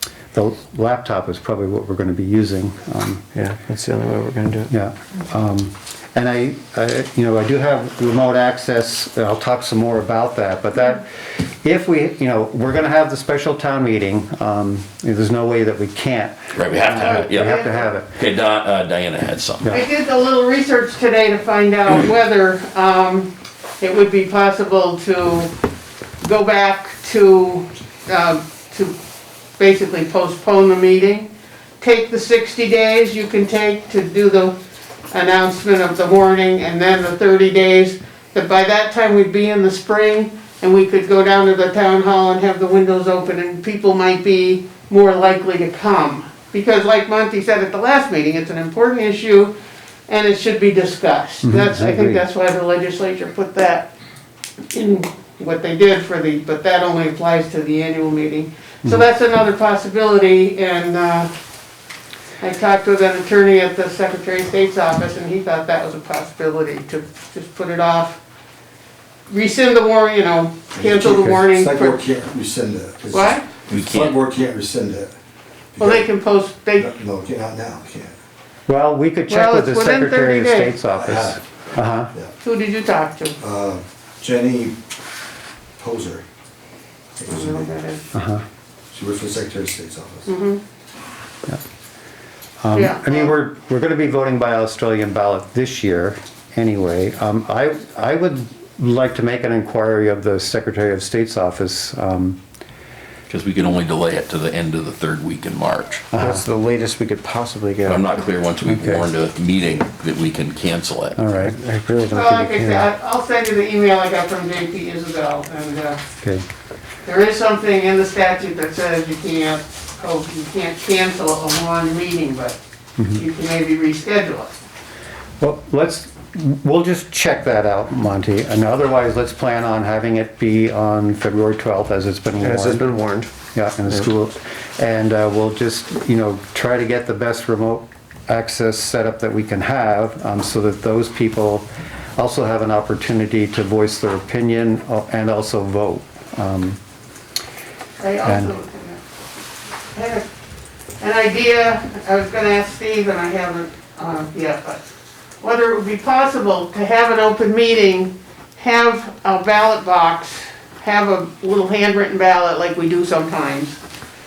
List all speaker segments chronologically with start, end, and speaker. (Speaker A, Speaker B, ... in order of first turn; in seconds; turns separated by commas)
Speaker A: 0.3-3.2, Speaker B: 3.4-4.7, Speaker A: 4.7-11.1, Speaker A: 11.6-18.1, Speaker C: 16.5-17.6, Speaker D: 17.1-17.9, Speaker C: 18.1-19.8, Speaker D: 19.7-25.5, Speaker D: 26.2-28.9, Speaker D: 29.6-31.3, Speaker D: 31.8-34.6, Speaker D: 35.1-49.5, Speaker D: 50.1-53.9, Speaker A: 51.4-52.2, Speaker D: 54.7-61.3, Speaker D: 62.4-68.2, Speaker D: 69.3-72.0, Speaker E: 70.7-75.1, Speaker D: 73.1-73.5, Speaker C: 73.7-74.2, Speaker E: 75.8-76.1, Speaker D: 75.8-76.9, Speaker E: 76.8-78.1, Speaker A: 78.7-82.1, Speaker D: 79.3-80.8, Speaker E: 81.0-81.4, Speaker D: 82.4-83.4, Speaker E: 83.4-84.8, Speaker E: 85.8-86.2, Speaker E: 87.2-87.8, Speaker D: 87.3-88.1, Speaker A: 88.1-88.4, Speaker E: 88.9-90.3, Speaker D: 90.3-90.6, Speaker A: 92.6-102.4, Speaker D: 92.7-93.3, Speaker C: 103.3-106.0, Speaker A: 106.1-106.4, Speaker B: 106.2-108.0, Speaker C: 107.9-111.2, Speaker A: 108.7-109.0, Speaker A: 111.2-111.6, Speaker B: 111.4-112.9, Speaker D: 112.1-116.0, Speaker D: 117.0-122.6, Speaker A: 123.0-123.2, Speaker D: 123.1-124.6, Speaker A: 125.4-132.9, Speaker B: 132.4-133.3, Speaker A: 133.5-141.7, Speaker A: 142.2-146.8, Speaker D: 148.0-149.0, Speaker A: 148.2-148.5, Speaker D: 149.9-150.3, Speaker D: 151.0-154.8, Speaker D: 155.4-163.8